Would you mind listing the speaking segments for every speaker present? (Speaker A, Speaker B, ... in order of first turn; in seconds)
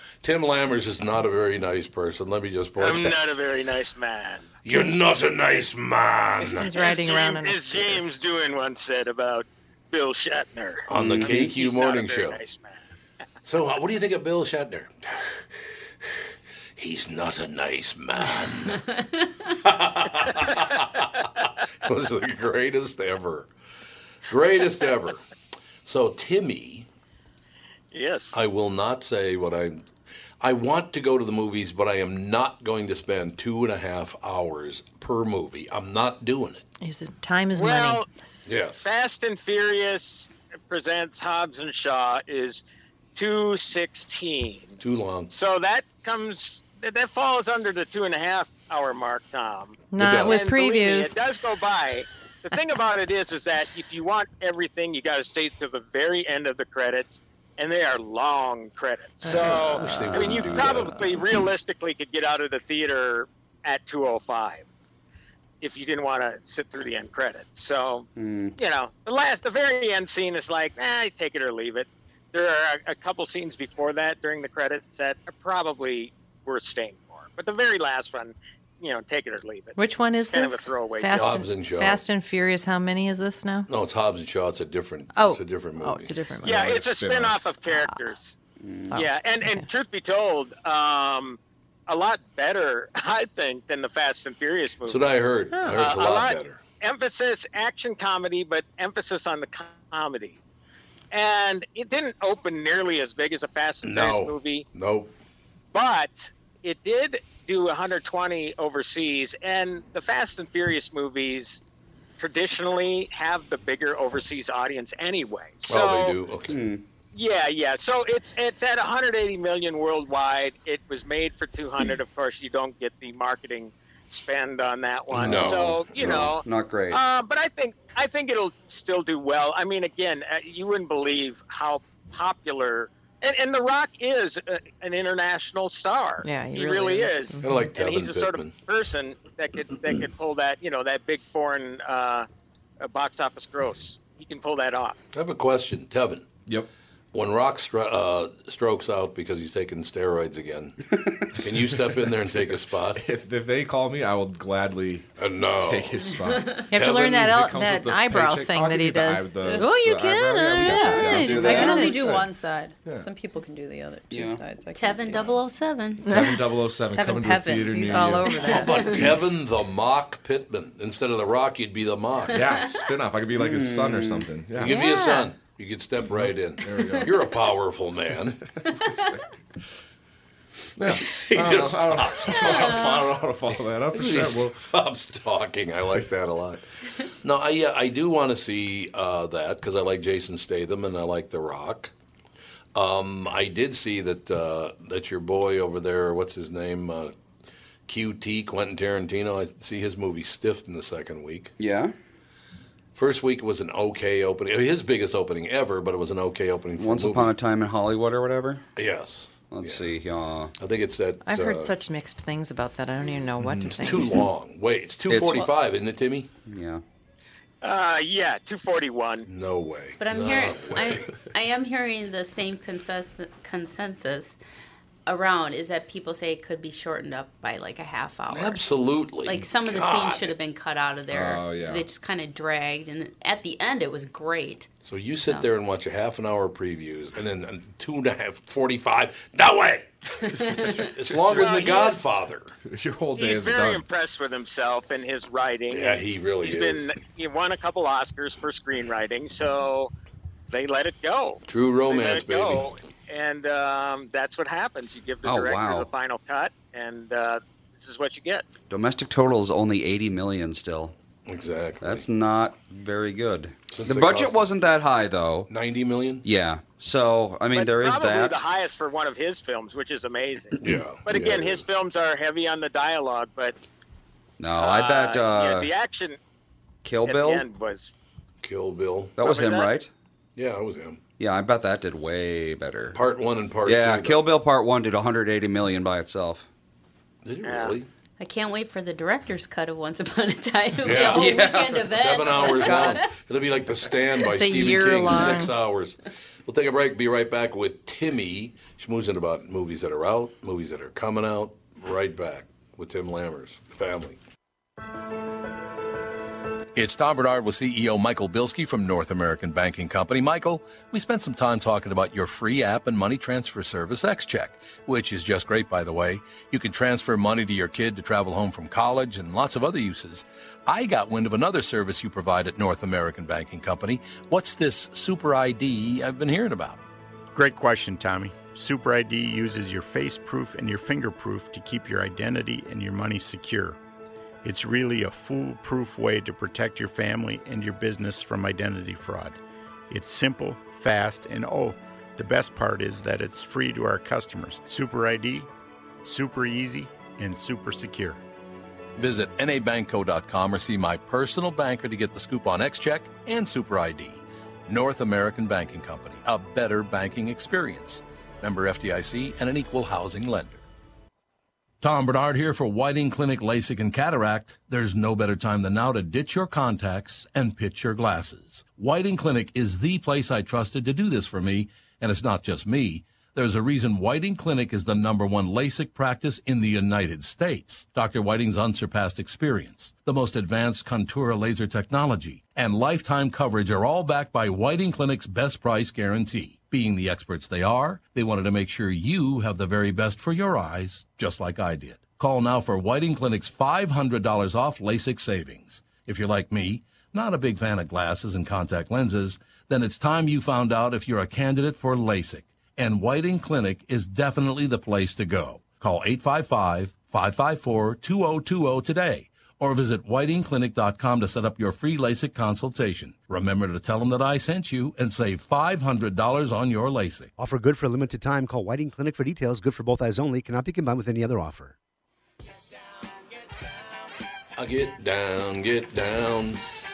Speaker A: 0.2-3.2, 4.6-6.7, 10.9-12.4, 13.4-15.4, 16.8-18.9, 19.5-23.5, 24.3-25.2, 25.9-26.9, 28.3-29.9, 30.4-36.7, 38.5-38.9, 44.8-45.3, 49.9-50.4, 59.2-61.3, 81.2-82.0, 83.7-86.4, 94.9-96.6, 103.8-105.1, 115.7-116.7, 125.1-126.4, 137.4-138.6, 145.1-146.3, 147.1-150.8, 151.3-153.0, 155.2-156.1, 156.7-157.4, 168.4-172.5, 174.5-178.4, 180.8-182.8, 183.9-186.7, 187.2-191.9, 192.8-197.1, 197.9-201.5, 202.9-207.3, 208.8-210.0, 210.6-211.7, 213.7-216.3, 219.2-221.2, 228.3-230.4, 234.8-242.6, 245.7-246.9, 251.5-252.7, 261.3-262.1, 263.7-264.5, 265.5-266.2, 270.6-271.7, 278.4-279.2, 280.4-281.0, 282.9-284.3, 287.2-287.9, 290.8-304.2, 306.8-326.8, 349.0-360.6, 361.8-417.3, 424.6-426.6
Speaker B: 2.8-4.5, 6.7-12.8, 27.9-28.4, 37.5-38.1, 38.8-42.6, 43.1-44.8, 45.3-64.7, 65.6-79.8, 80.3-81.4, 86.4-88.3, 88.9-100.4, 101.1-104.7, 105.7-111.6, 112.2-116.2, 117.1-142.3, 142.8-145.0, 217.6-219.3, 241.3-242.0, 243.2-249.9, 250.5-258.5, 267.5-273.6, 274.6-276.2, 277.0-277.9, 279.2-279.7, 287.4-287.8
Speaker C: 6.5-8.0, 36.8-38.0, 49.9-51.1, 59.2-60.7, 79.8-83.7, 85.2-86.7, 88.9-89.7, 136.2-137.7, 156.7-162.2, 166.1-166.4, 167.7-168.8, 174.7-175.2, 211.2-214.1, 294.2-295.5
Speaker D: 11.0-11.5, 68.2-68.6, 88.6-89.0, 116.5-116.8, 125.3-125.5, 126.4-127.0, 160.9-162.0, 164.1-164.4, 173.4-174.3, 201.6-201.9, 206.8-208.6, 209.5-210.5, 215.1-215.5, 216.5-216.8, 255.2-255.9, 258.7-260.9, 261.8-265.5, 266.2-268.4, 274.4-275.7, 276.8-277.4, 279.2-279.9, 281.2-283.0, 283.6-286.5, 291.0-291.9
Speaker E: 86.4-87.4, 152.0-155.1, 155.6-156.7, 157.2-162.3, 166.0-168.4, 172.3-174.8, 176.1-177.2, 178.6-179.2, 180.8-184.6, 213.4-213.8, 231.1-231.9, 240.6-241.4, 242.7-243.8
Speaker F: 156.3-156.7, 164.7-166.1, 168.7-169.1, 182.5-183.1, 220.0-224.4, 225.1-228.7, 229.2-234.7, 240.5-240.7, 288.2-293.2
Speaker G: 159.4-159.8, 160.7-165.4, 166.9-168.7
Speaker H: 327.3-333.8, 334.4-339.4, 339.9-345.5, 346.0-348.2
Speaker I: 417.4-421.8